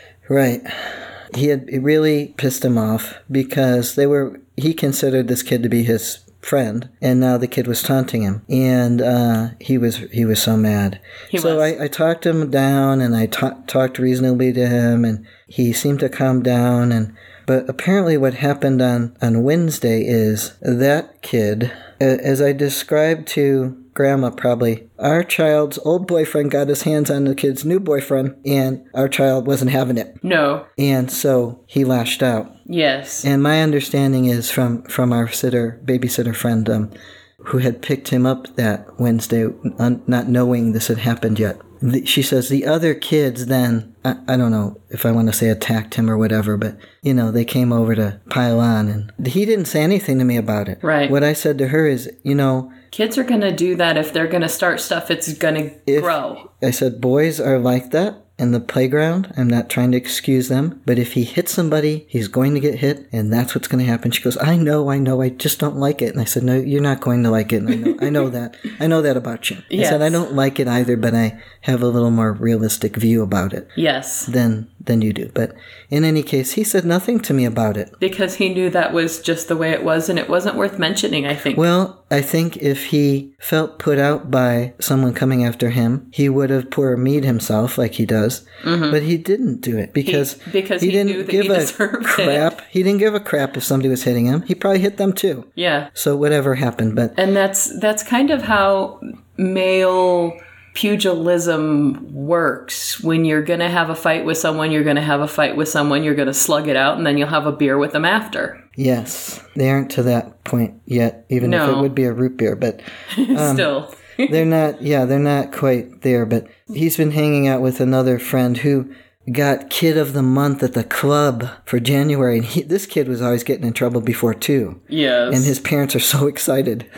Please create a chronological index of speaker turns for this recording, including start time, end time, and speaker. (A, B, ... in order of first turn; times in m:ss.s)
0:00.3-0:30.2 A
0:11.3-0:11.7 B
0:30.2-0:30.7 B
0:30.8-0:32.6 A
0:32.7-0:33.3 B
0:33.2-0:52.7 A
0:50.8-0:51.2 B
0:52.9-0:56.4 B
0:55.9-1:13.7 A
1:09.7-1:10.2 B
1:13.8-1:14.3 B
1:14.3-1:18.0 A
1:18.0-1:21.6 B
1:21.5-1:37.2 A
1:28.6-1:29.0 B
1:30.0-1:32.5 B
1:35.6-1:35.9 B
1:37.2-1:48.6 B
1:48.8-1:53.7 A
1:51.4-1:51.9 B
1:53.1-1:54.4 B
1:54.2-2:06.9 A
2:04.9-2:05.5 B